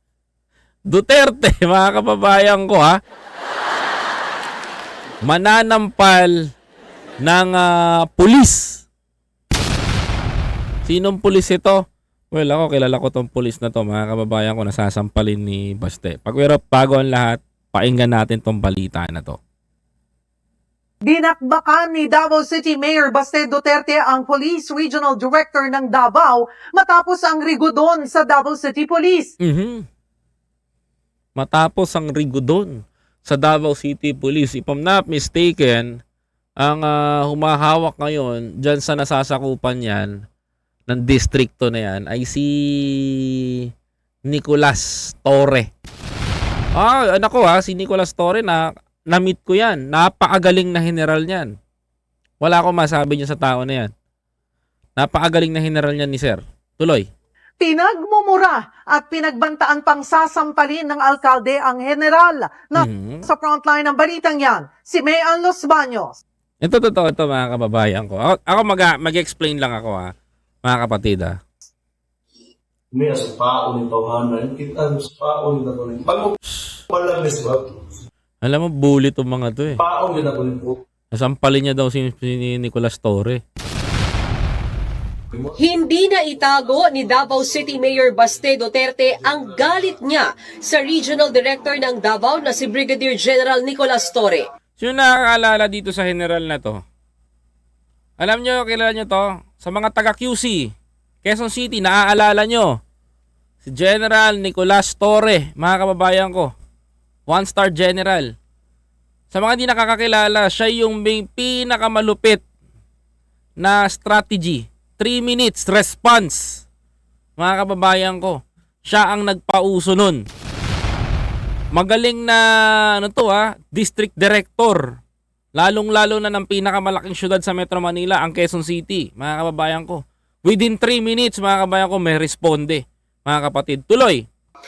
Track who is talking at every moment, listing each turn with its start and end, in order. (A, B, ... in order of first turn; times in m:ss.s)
0:00.9-0:03.0 A
0:05.2-0:06.4 A
0:07.2-0:08.8 A
0:10.9-0:19.4 A
0:21.1-0:29.3 B
0:29.4-0:29.9 A
0:31.4-0:35.9 A
0:36.6-0:40.1 A
0:40.9-0:43.4 A
0:44.3-0:45.7 A
0:46.8-0:51.5 A
0:52.4-0:53.9 A
0:55.0-0:57.1 A
0:57.6-1:06.2 B
1:02.8-1:03.3 A
1:06.6-1:10.1 A
1:10.6-1:11.4 A
1:12.9-1:16.4 C
1:16.9-1:17.9 C
1:18.4-1:19.8 A
1:19.8-1:20.8 C
1:21.1-1:23.4 A
1:25.3-1:25.6 C
1:25.6-1:34.5 D
1:34.8-1:36.8 A
1:38.2-1:40.7 A
1:41.2-1:42.8 A
1:43.6-1:46.5 A
1:47.3-1:48.3 A
1:49.3-1:52.4 A
1:53.6-1:56.6 A
1:57.4-2:00.2 A
2:01.8-2:04.8 A
2:05.6-2:14.2 A